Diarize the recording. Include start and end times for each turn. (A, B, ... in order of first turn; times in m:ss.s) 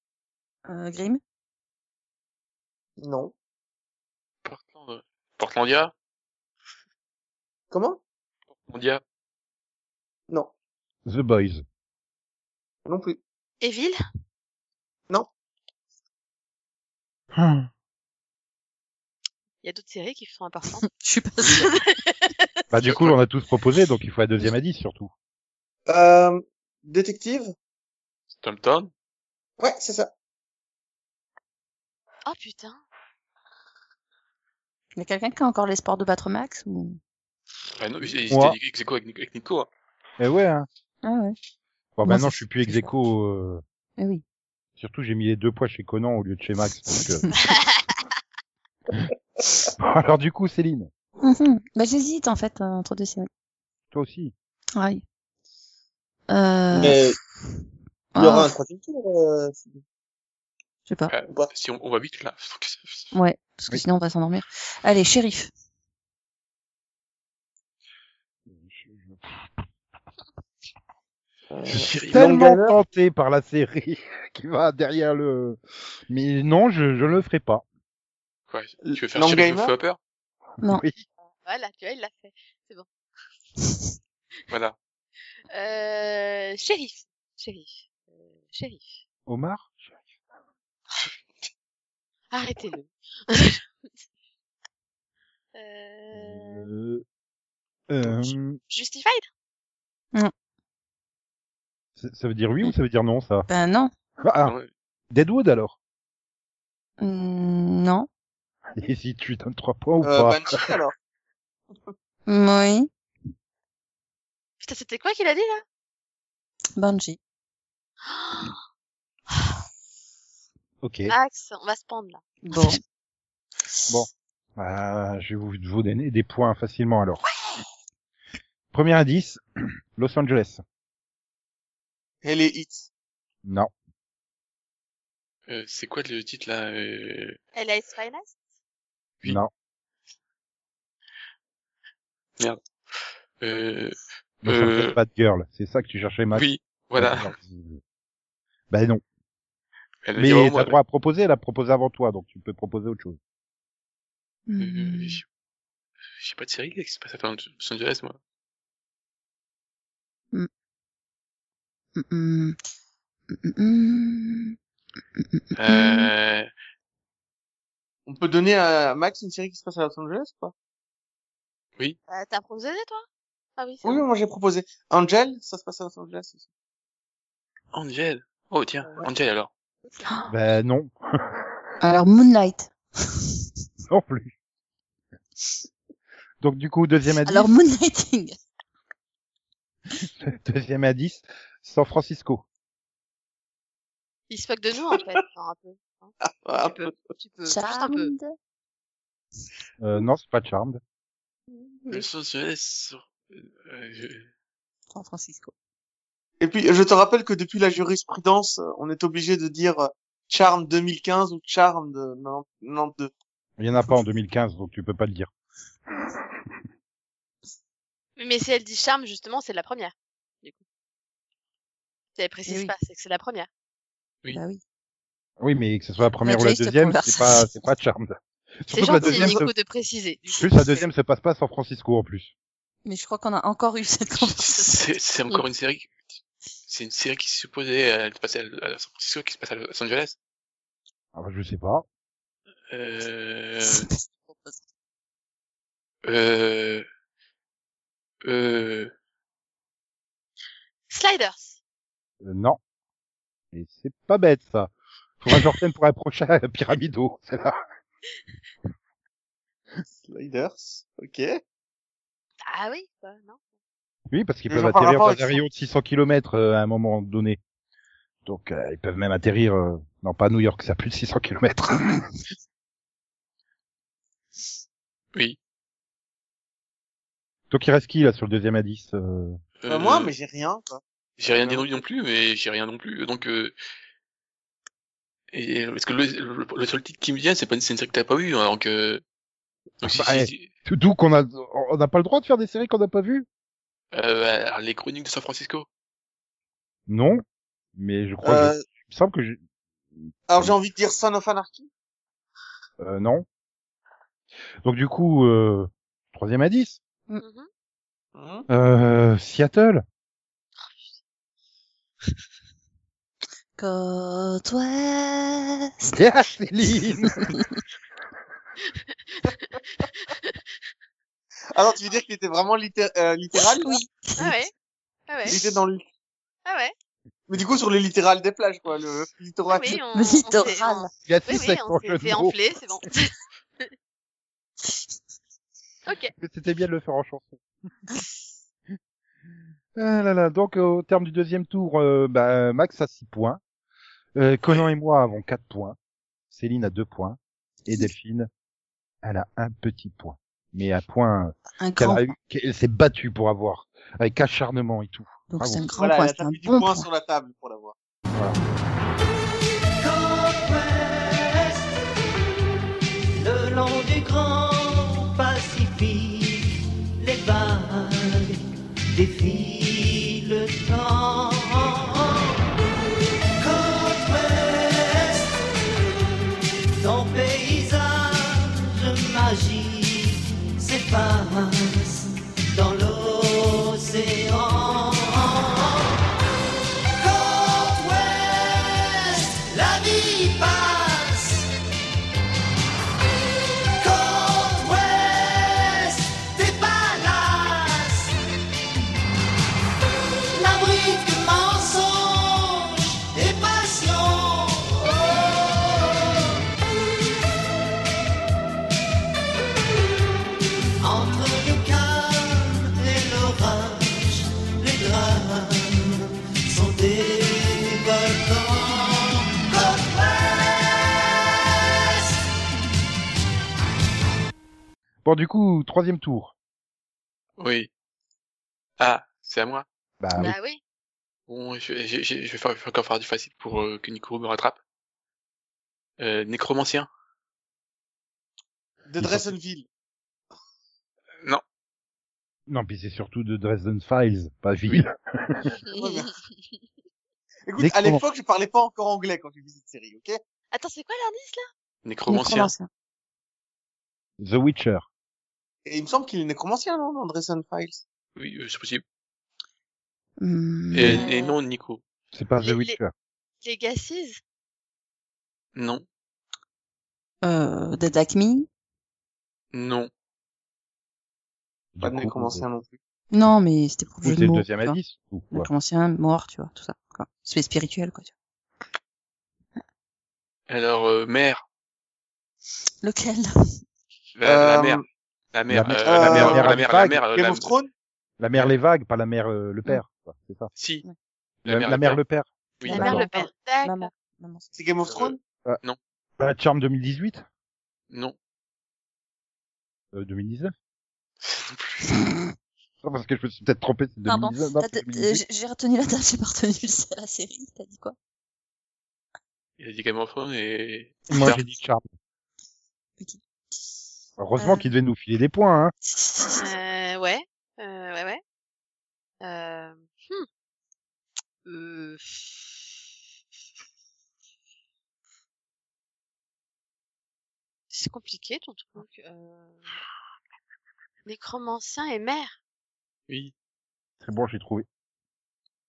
0:00.7-0:01.2 A
0:03.0-0:03.3 B
0:04.4-0:05.9 C
0:07.7-0:08.0 B
0:08.5-0:09.0 C
0:11.1-0:11.6 D
0:12.9-0:13.2 B
0:13.6-0:14.0 E
0:17.4-0:17.7 D
0:19.6-0:20.8 E
0:20.9-0:21.8 A
0:21.4-0:22.2 E
0:22.7-0:25.1 D
0:22.8-0:23.2 C
0:25.9-0:27.5 B
0:28.4-0:28.9 C
0:29.6-0:30.1 B
0:32.3-0:32.8 E
0:35.0-0:37.0 A
0:37.8-0:39.7 C
0:38.3-0:38.6 D
0:40.2-0:40.7 D
0:41.0-0:41.4 A
0:42.0-0:43.6 D
0:42.0-0:42.9 A
0:44.0-0:44.2 A
0:44.8-0:47.3 D
0:47.5-0:47.8 E
0:49.8-0:50.9 D
0:51.2-0:53.3 A
0:53.9-0:54.3 D
0:54.8-0:55.0 A
0:56.3-0:57.1 A
0:56.7-0:57.2 B
0:58.1-0:58.6 A
0:58.2-0:59.8 B
1:00.9-1:01.1 A
1:01.1-1:03.1 C
1:03.1-1:05.5 A
1:08.5-1:09.6 D
1:11.5-1:12.8 B
1:11.7-1:17.6 D
1:11.9-1:12.3 C
1:18.5-1:20.0 C
1:18.8-1:19.7 B
1:20.6-1:21.0 D
1:21.4-1:22.9 E
1:24.5-1:24.8 C
1:25.5-1:27.9 E
1:28.5-1:28.9 E
1:29.3-1:29.8 D
1:32.3-1:33.6 E
1:35.5-1:36.7 E
1:36.1-1:37.0 D
1:37.9-1:38.6 D
1:38.0-1:39.3 E
1:42.0-1:43.5 D
1:43.5-1:43.9 A
1:44.2-1:44.6 D
1:44.4-1:44.7 C
1:45.1-1:45.8 D
1:47.0-1:48.1 A
1:48.8-1:50.6 D
1:50.0-1:50.9 B
1:52.3-1:52.9 A
1:54.6-1:55.6 E
1:56.8-1:57.2 A
1:58.1-1:58.5 E
2:00.8-2:01.2 D
2:01.1-2:02.2 E
2:02.4-2:02.8 A
2:03.9-2:07.2 D
2:08.7-2:09.4 D
2:10.0-2:10.6 D
2:12.2-2:12.9 B
2:13.4-2:13.7 D
2:15.5-2:17.4 C
2:17.6-2:18.4 E
2:19.2-2:19.5 D
2:23.4-2:25.0 C
2:24.4-2:27.8 D
2:26.3-2:27.3 C
2:28.7-2:29.0 D
2:30.1-2:30.8 C
2:30.2-2:33.2 D
2:34.5-2:35.2 A
2:34.6-2:35.2 C
2:36.2-2:38.2 C
2:42.0-2:42.6 A
2:43.3-2:44.6 A
2:45.2-2:46.1 A
2:45.6-2:46.5 C
2:48.1-2:50.5 B
2:52.1-2:53.1 E
2:53.6-2:54.0 E
2:53.8-2:56.4 B
2:57.7-2:59.5 C
3:00.3-3:01.4 D
3:01.8-3:02.7 A
3:03.9-3:04.3 D
3:06.4-3:07.5 D
3:07.2-3:08.4 A
3:10.2-3:12.4 D
3:14.3-3:18.1 E
3:16.4-3:17.0 B
3:17.5-3:18.3 A
3:19.8-3:20.8 D
3:21.9-3:24.3 C
3:24.9-3:25.5 A
3:26.4-3:33.1 B
3:33.6-3:35.3 D
3:38.2-3:40.6 E
3:42.2-3:43.5 E
3:42.5-3:42.7 A
3:44.3-3:44.6 A
3:45.4-3:49.5 D
3:46.2-3:47.5 A
3:48.7-3:50.8 E
3:50.4-3:52.3 D
3:52.8-3:54.8 A
3:54.3-3:56.0 C
3:56.7-4:00.2 C
4:01.1-4:01.9 D
4:02.7-4:03.9 C
4:03.6-4:04.6 A
4:06.0-4:06.8 C
4:08.2-4:08.9 C
4:10.9-4:11.6 E
4:12.2-4:12.6 D
4:13.5-4:17.6 D
4:20.0-4:21.4 B
4:22.4-4:23.4 E
4:24.1-4:27.4 D
4:24.5-4:25.4 B
4:28.2-4:32.0 D
4:37.5-4:39.4 D
4:39.6-4:40.1 C
4:39.7-4:41.7 B
4:41.2-4:43.6 C
4:45.3-4:49.0 C
4:49.8-4:50.5 C
4:49.8-4:53.3 D
4:53.9-4:55.7 C
4:56.9-4:57.2 D
4:57.8-4:59.4 D
4:58.2-4:58.6 B
5:00.0-5:00.5 D
5:00.3-5:01.7 B
5:02.8-5:03.2 D
5:04.6-5:06.8 D
5:07.2-5:07.5 E
5:08.2-5:08.5 B
5:08.5-5:09.8 D
5:13.6-5:16.0 A
5:15.9-5:17.3 D
5:17.1-5:17.6 A
5:18.9-5:20.4 E
5:21.5-5:23.8 B
5:23.4-5:24.4 A
5:24.2-5:24.5 E
5:25.1-5:25.3 E
5:25.3-5:25.8 B
5:26.5-5:26.7 E
5:27.3-5:29.8 B
5:29.5-5:33.7 E
5:29.9-5:30.9 A
5:31.1-5:32.4 D
5:35.9-5:36.1 E
5:36.2-5:37.4 D
5:39.8-5:43.4 D
5:44.2-5:45.8 D
5:46.3-5:48.3 D
5:49.0-5:55.7 D
5:51.6-5:52.1 A
5:55.3-5:56.9 A
5:55.7-5:57.8 B
5:58.1-5:58.4 D
5:59.8-6:01.8 F
6:03.2-6:08.4 F
6:08.9-6:12.4 F
6:13.4-6:15.4 F
6:16.8-6:25.9 F
6:27.0-6:31.5 F
6:33.8-6:38.1 F
6:40.3-6:46.4 F
6:50.8-7:01.2 F
7:05.0-7:06.3 D
7:07.4-7:07.7 C
7:08.8-7:09.6 C
7:10.0-7:10.3 D
7:10.2-7:10.6 E
7:11.3-7:14.6 C
7:16.0-7:16.9 C
7:18.9-7:19.7 B
7:19.0-7:19.3 D
7:22.5-7:25.5 D
7:25.6-7:26.1 B
7:25.7-7:26.1 E
7:27.5-7:30.2 B
7:27.6-7:28.0 D
7:30.5-7:31.4 E
7:31.8-7:32.5 C
7:32.1-7:32.7 A
7:34.2-7:34.9 D
7:35.7-7:37.8 B
7:38.2-7:38.8 C
7:40.2-7:41.0 A
7:40.7-7:41.8 C
7:40.9-7:41.4 E
7:42.1-7:42.9 D
7:42.4-7:42.8 E
7:43.4-7:44.2 E
7:45.6-7:45.8 C
7:47.2-7:48.5 A
7:49.5-7:49.9 C
7:51.7-7:52.4 D
7:51.8-7:52.8 B
7:53.1-7:54.8 A
7:54.0-7:55.5 D
7:55.3-7:58.1 A
8:00.5-8:01.4 C
8:02.8-8:03.6 A
8:04.2-8:04.8 C
8:04.2-8:04.8 B
8:05.3-8:07.6 C
8:05.5-8:07.0 D
8:05.8-8:07.7 B
8:08.2-8:10.5 D
8:10.6-8:10.8 C
8:11.4-8:12.0 C
8:11.5-8:13.0 D
8:12.6-8:12.9 C
8:12.7-8:13.9 E
8:12.7-8:14.5 A
8:14.5-8:15.2 B
8:14.9-8:15.8 C
8:16.2-8:17.3 D
8:19.9-8:20.5 D
8:21.2-8:21.9 C
8:22.8-8:25.2 D
8:24.1-8:28.0 A
8:29.6-8:31.4 C
8:31.1-8:31.8 D
8:34.2-8:35.7 D
8:34.4-8:34.7 A
8:36.4-8:38.2 E
8:39.2-8:40.3 E
8:41.4-8:42.2 E
8:47.7-8:49.6 E
8:51.1-8:52.4 E
8:54.0-8:54.7 D